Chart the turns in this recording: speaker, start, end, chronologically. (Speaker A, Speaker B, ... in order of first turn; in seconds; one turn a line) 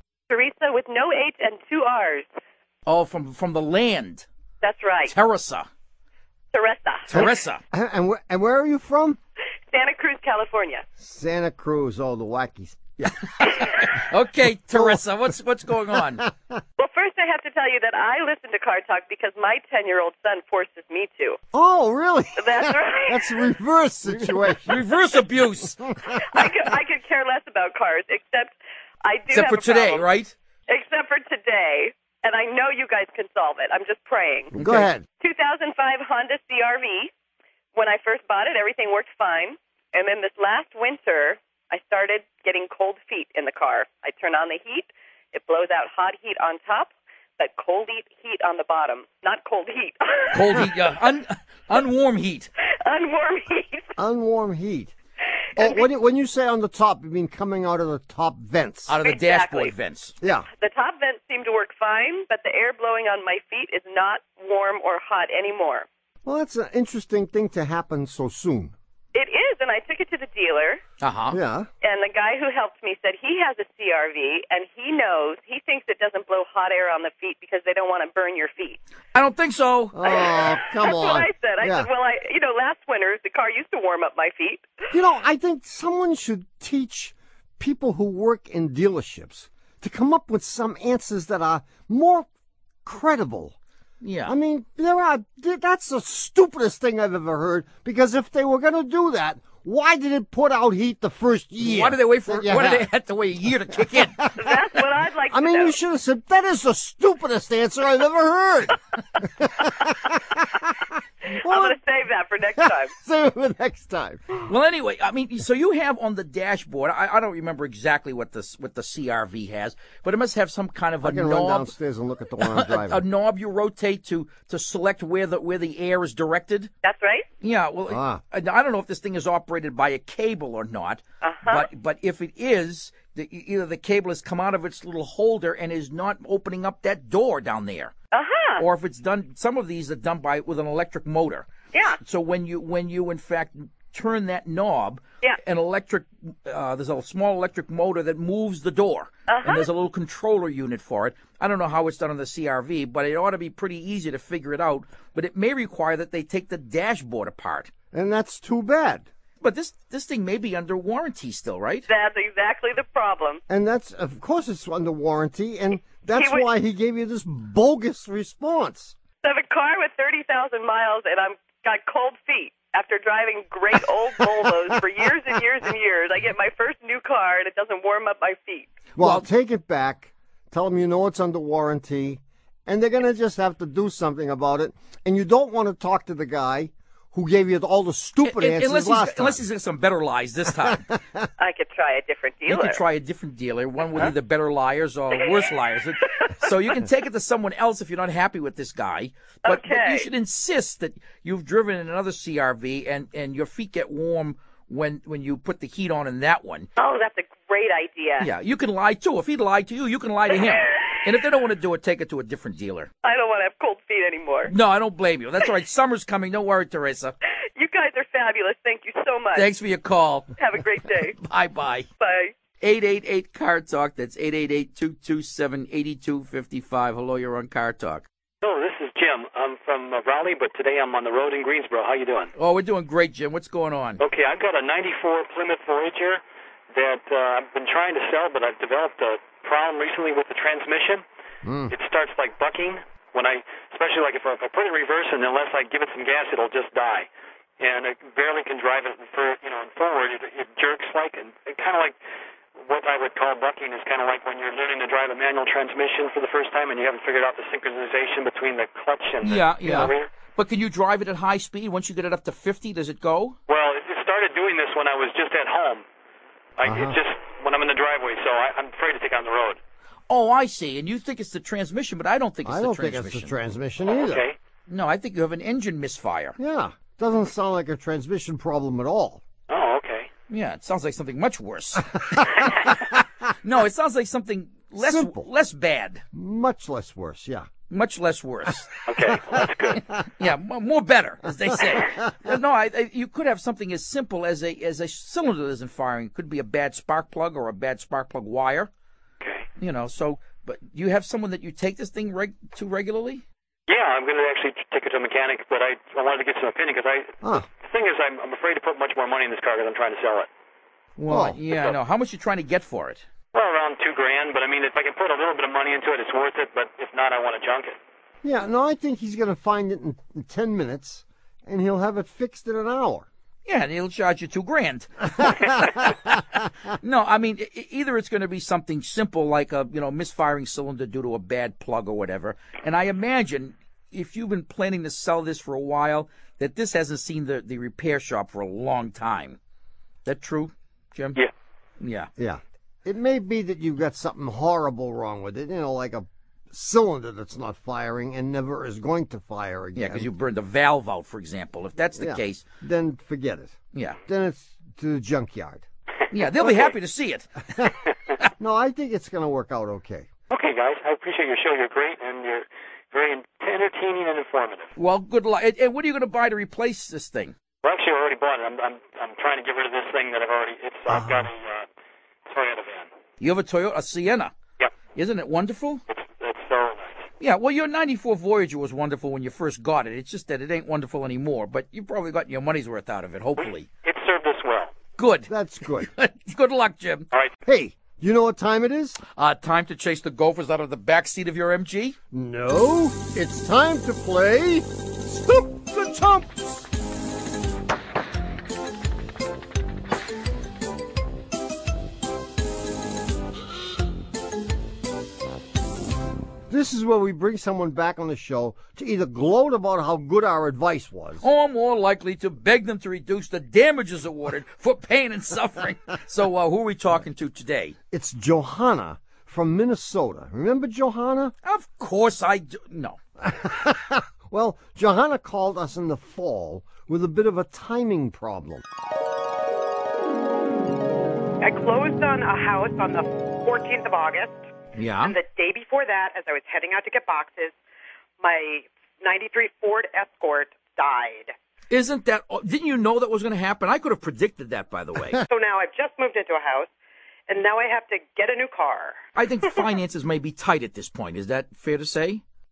Speaker A: 0.3-2.3
Speaker B: 2.9-4.3
Speaker A: 4.6-5.1
Speaker B: 5.1-5.7
Speaker A: 6.5-7.1
Speaker B: 7.1-7.6
Speaker C: 7.1-9.2
Speaker A: 9.7-10.8
Speaker C: 11.0-13.8
Speaker B: 13.3-16.2
Speaker C: 14.7-15.0
Speaker C: 16.0-16.3
Speaker A: 16.8-21.4
Speaker C: 21.5-24.8
Speaker A: 22.4-23.4
Speaker B: 24.7-25.9
Speaker A: 26.1-30.1
Speaker B: 29.3-30.3
Speaker A: 30.7-34.5
Speaker C: 34.5-35.0
Speaker B: 34.6-34.9
Speaker A: 35.2-37.1
Speaker A: 37.7-50.6
Speaker B: 50.3-52.5
Speaker A: 52.7-53.9
Speaker C: 54.0-54.9
Speaker C: 55.5-58.9
Speaker A: 55.6-55.9
Speaker B: 58.9-60.1
Speaker A: 59.0-59.7
Speaker C: 60.2-60.5
Speaker A: 60.6-65.9
Speaker C: 66.2-68.8
Speaker A: 69.1-70.8
Speaker B: 71.0-71.4
Speaker C: 71.3-71.7
Speaker A: 71.8-78.8
Speaker B: 79.1-80.0
Speaker C: 79.9-81.9
Speaker A: 80.0-84.9
Speaker C: 84.9-92.3
Speaker C: 92.8-93.6
Speaker B: 94.0-94.3
Speaker C: 94.2-102.9
Speaker B: 101.6-104.2
Speaker C: 103.8-104.5
Speaker A: 104.4-105.8
Speaker C: 105.3-110.7
Speaker A: 111.4-112.9
Speaker C: 111.4-111.8
Speaker C: 112.9-114.5
Speaker B: 114.5-121.7
Speaker C: 121.0-123.0
Speaker B: 122.4-126.7
Speaker A: 126.8-127.2
Speaker B: 127.4-137.9
Speaker C: 127.9-128.2
Speaker A: 131.2-131.7
Speaker A: 138.1-138.6
Speaker B: 138.6-141.5
Speaker A: 141.7-142.0
Speaker B: 142.0-157.7
Speaker A: 149.3-149.7
Speaker C: 157.9-159.1
Speaker B: 159.4-161.9
Speaker A: 161.9-163.4
Speaker C: 163.5-168.9
Speaker A: 166.1-166.5
Speaker A: 169.2-178.7
Speaker C: 179.0-189.4
Speaker B: 179.0-179.2
Speaker B: 188.2-190.9
Speaker C: 190.6-191.2
Speaker A: 191.4-192.8
Speaker B: 192.5-206.7
Speaker A: 196.2-196.5
Speaker A: 199.4-200.1
Speaker A: 206.8-208.3
Speaker B: 208.2-212.9
Speaker A: 213.0-214.5
Speaker B: 214.5-217.2
Speaker A: 217.6-219.5
Speaker B: 219.3-220.3
Speaker A: 220.4-221.2
Speaker B: 221.2-221.9
Speaker A: 222.0-222.3
Speaker B: 222.6-228.1
Speaker D: 228.4-232.3
Speaker B: 232.4-234.0
Speaker D: 234.0-236.2
Speaker D: 236.7-241.0
Speaker C: 241.4-241.7
Speaker D: 241.7-247.1
Speaker D: 247.6-252.0
Speaker D: 252.6-260.1
Speaker B: 259.2-263.4
Speaker C: 259.6-259.9
Speaker D: 263.5-265.8
Speaker D: 266.6-269.6
Speaker C: 266.6-267.0
Speaker B: 270.1-273.3
Speaker C: 272.4-274.2
Speaker D: 273.9-274.4
Speaker B: 274.7-276.4
Speaker C: 276.4-279.2
Speaker D: 279.5-280.1
Speaker B: 280.3-282.5
Speaker B: 283.4-286.0
Speaker C: 284.8-285.2
Speaker C: 286.1-287.5
Speaker B: 287.7-288.8
Speaker D: 288.9-289.8
Speaker C: 289.3-289.8
Speaker B: 290.2-298.7
Speaker D: 299.2-299.5
Speaker B: 299.6-303.2
Speaker D: 303.7-310.3
Speaker C: 307.2-307.5
Speaker B: 311.0-313.1
Speaker C: 311.1-311.4
Speaker D: 313.3-317.8
Speaker C: 318.2-323.1
Speaker B: 323.4-326.2
Speaker C: 325.2-325.5
Speaker B: 326.8-339.4
Speaker B: 340.0-341.2
Speaker B: 341.8-342.1
Speaker C: 342.2-350.1
Speaker B: 349.8-352.4
Speaker C: 352.0-355.6
Speaker B: 356.1-357.7
Speaker C: 356.4-356.7
Speaker C: 358.4-360.1
Speaker D: 360.3-364.7
Speaker B: 364.8-367.3
Speaker D: 367.6-371.7
Speaker C: 370.9-371.3
Speaker D: 372.3-372.9
Speaker B: 373.2-374.3
Speaker B: 374.9-375.8
Speaker D: 375.9-377.1
Speaker B: 377.2-383.7
Speaker D: 383.4-384.8
Speaker B: 385.0-387.1
Speaker C: 385.3-385.9
Speaker C: 387.4-389.0
Speaker B: 389.1-392.0
Speaker C: 392.1-396.7
Speaker C: 406.5-411.2
Speaker B: 411.2-417.8
Speaker C: 417.9-421.3
Speaker B: 421.4-423.0
Speaker C: 423.2-428.6
Speaker E: 431.4-434.4
Speaker B: 434.8-435.1
Speaker E: 435.0-437.5
Speaker E: 438.2-441.3
Speaker B: 441.7-445.2
Speaker E: 445.3-446.7
Speaker E: 447.3-449.0
Speaker B: 449.1-452.2